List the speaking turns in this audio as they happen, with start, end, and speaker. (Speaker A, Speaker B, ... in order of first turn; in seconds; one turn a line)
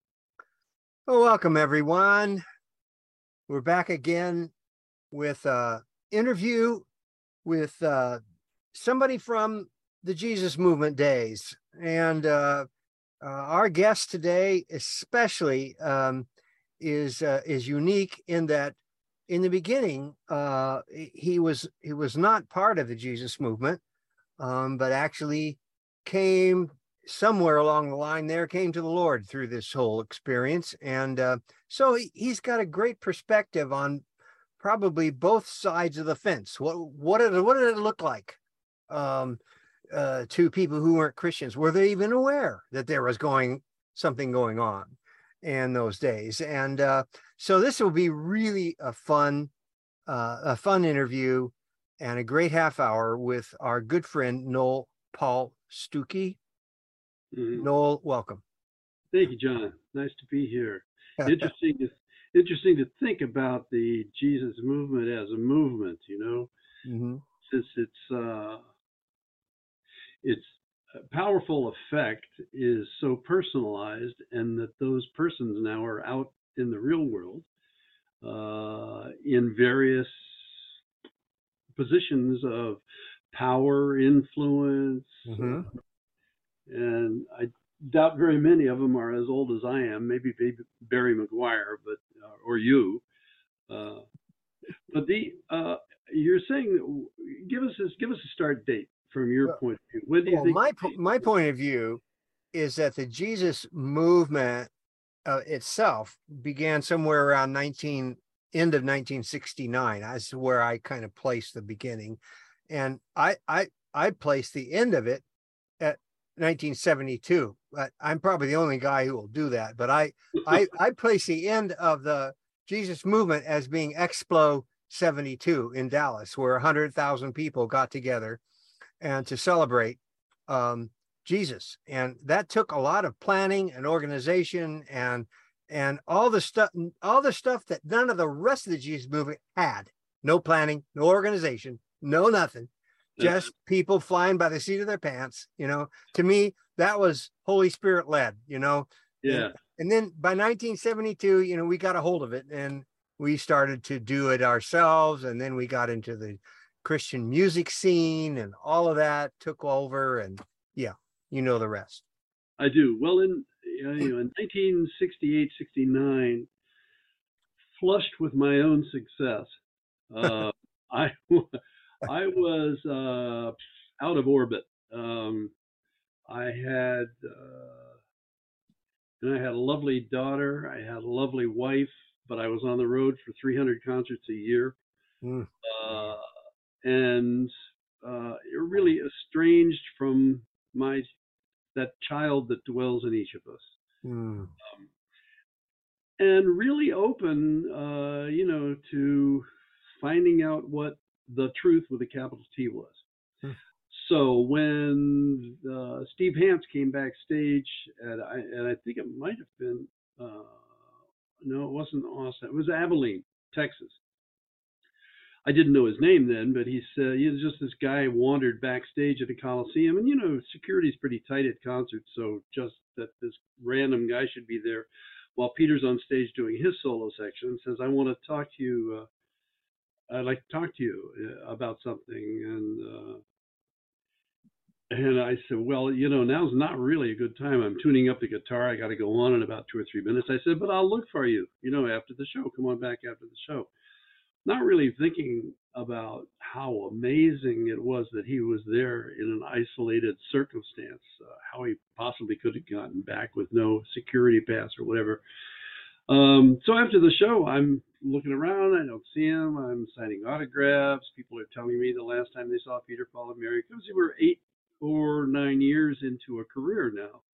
Speaker A: 1.1-2.4
Speaker A: 3.5-4.5
Speaker A: 5.1-6.8
Speaker A: 7.4-8.2
Speaker A: 8.7-12.7
Speaker A: 13.2-16.3
Speaker A: 16.8-23.8
Speaker A: 24.4-34.0
Speaker A: 34.6-39.4
Speaker A: 39.9-49.5
Speaker A: 50.1-56.4
Speaker B: 57.3-57.7
Speaker A: 57.6-58.4
Speaker B: 59.1-66.5
Speaker A: 61.2-61.5
Speaker A: 66.8-67.2
Speaker B: 67.5-68.6
Speaker B: 70.2-77.5
Speaker B: 78.2-80.6
Speaker B: 81.8-85.7
Speaker A: 85.3-85.7
Speaker B: 86.7-93.0
Speaker B: 93.7-94.1
Speaker B: 94.9-101.2
Speaker A: 100.3-102.0
Speaker A: 102.5-104.7
Speaker A: 105.3-115.2
Speaker A: 115.8-128.4
Speaker A: 129.0-162.0
Speaker B: 143.2-143.5
Speaker B: 149.2-149.6
Speaker B: 162.6-166.5
Speaker B: 167.8-169.6
Speaker B: 170.1-175.5
Speaker B: 176.3-178.0
Speaker B: 179.2-184.8
Speaker A: 185.2-185.5
Speaker B: 185.6-186.2
Speaker B: 186.8-191.1
Speaker B: 191.8-193.8
Speaker A: 194.0-194.5
Speaker B: 196.2-199.4
Speaker B: 200.0-203.1
Speaker B: 203.9-210.8
Speaker B: 211.4-214.0
Speaker B: 215.4-229.1
Speaker B: 230.1-233.2
Speaker B: 234.9-243.7
Speaker B: 244.4-255.2
Speaker B: 256.1-267.2